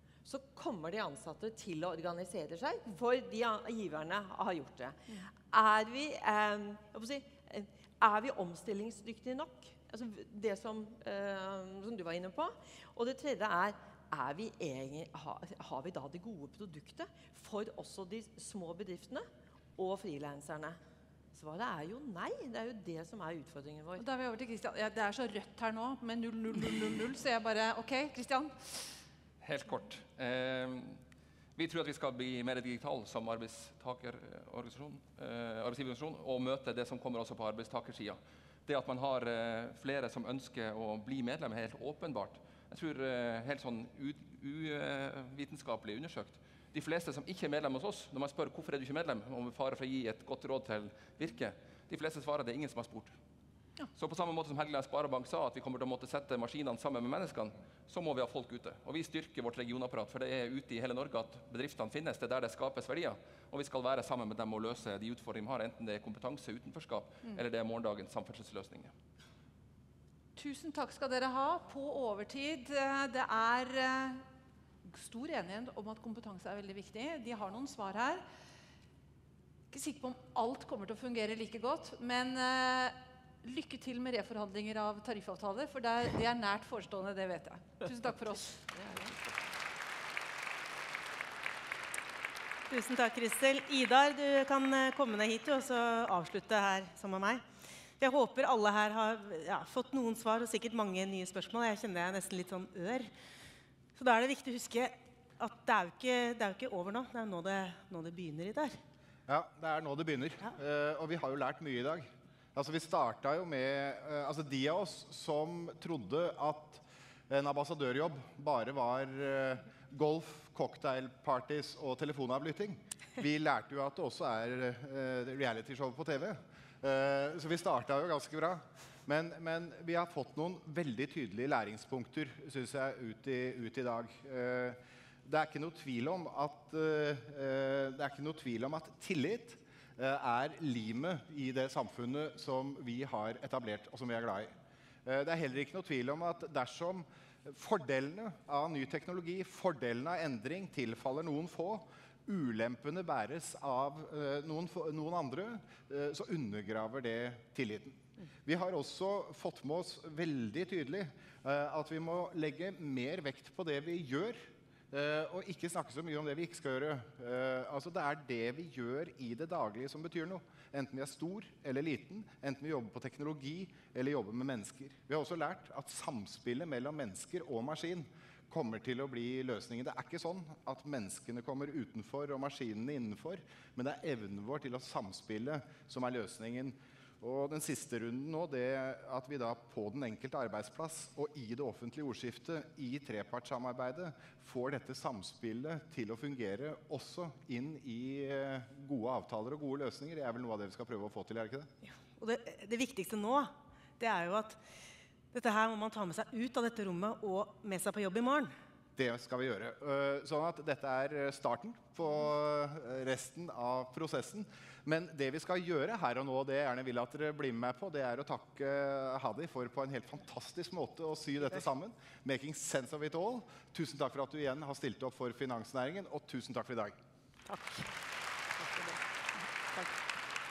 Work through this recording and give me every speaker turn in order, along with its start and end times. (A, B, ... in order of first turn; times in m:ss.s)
0:00.2-0:20.8 A
0:21.3-0:24.1 A
0:24.0-0:28.9 B
0:29.4-0:31.0 C
0:31.6-0:53.1 C
0:54.0-1:08.9 C
1:10.4-1:14.2 B
1:14.8-1:18.2 B
1:19.7-1:28.6 B
1:28.7-1:29.5 A
1:32.7-1:37.4 D
1:38.0-1:43.1 D
1:44.0-1:48.8 D
1:49.3-2:24.5 E
2:25.0-3:21.7 E
3:21.8-3:24.6 D
3:25.3-3:28.5 D
3:29.0-3:47.0 E
3:47.5-3:47.9 D
3:48.6-3:49.0 D